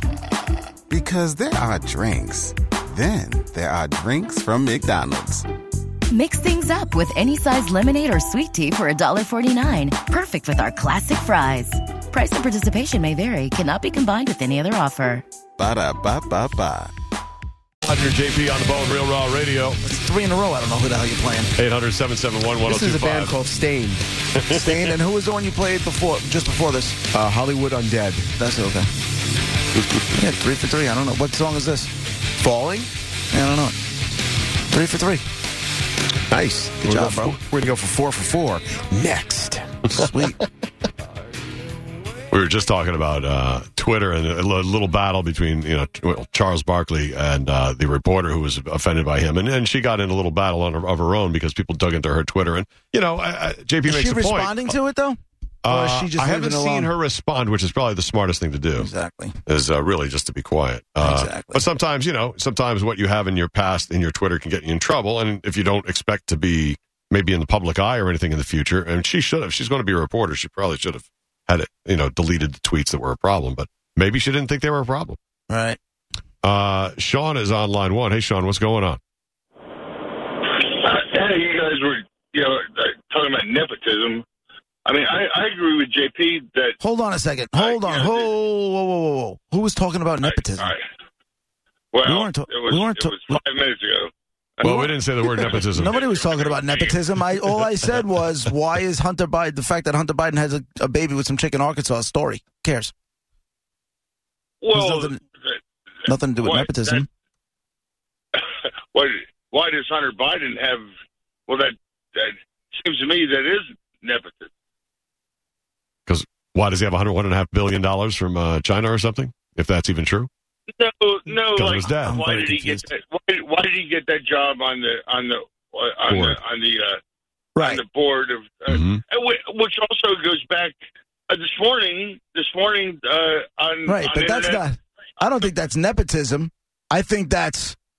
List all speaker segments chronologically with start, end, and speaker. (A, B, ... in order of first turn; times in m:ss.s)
0:00.9-0:05.5 A
0:06.1-0:15.2 B
0:15.6-0:16.9 A
0:17.8-0:19.8 C
0:19.8-0:21.5 D
0:21.6-0:23.4 C
0:22.6-0:24.0 E
0:24.3-0:24.8 C
0:24.5-0:27.0 D
0:27.1-0:28.3 E
0:28.4-0:28.9 D
0:30.2-0:31.9 D
0:32.4-0:32.9 E
0:33.3-0:33.8 D
0:34.7-0:35.2 D
0:36.3-0:40.1 E
0:36.8-0:37.4 D
0:39.9-0:40.4 D
0:42.3-0:54.6 C
0:53.9-0:56.9 D
0:55.6-0:58.9 C
0:58.8-0:59.4 D
0:59.4-1:15.2 C
1:01.0-1:01.6 D
1:15.5-1:15.8 D
1:16.4-1:19.0 C
1:20.4-1:24.2 F
1:24.8-1:26.7 F
1:26.8-1:30.7 D
1:27.6-1:28.3 F
1:30.2-1:30.8 F
1:31.9-1:37.0 F
1:32.0-1:33.4 D
1:34.6-1:36.0 C
1:35.7-1:42.9 D
1:44.6-1:45.6 F
1:44.7-1:45.2 D
1:46.1-1:47.1 D
1:46.4-1:47.0 F
1:48.3-1:50.9 F
1:51.5-1:54.5 F
1:56.1-2:00.3 C
2:00.7-2:07.0 F
2:01.5-2:02.2 C
2:02.0-2:02.9 D
2:06.1-2:06.4 C
2:07.6-2:07.8 D
2:07.6-2:10.8 F
2:08.7-2:09.0 C
2:11.3-2:14.6 F
2:13.9-2:17.8 D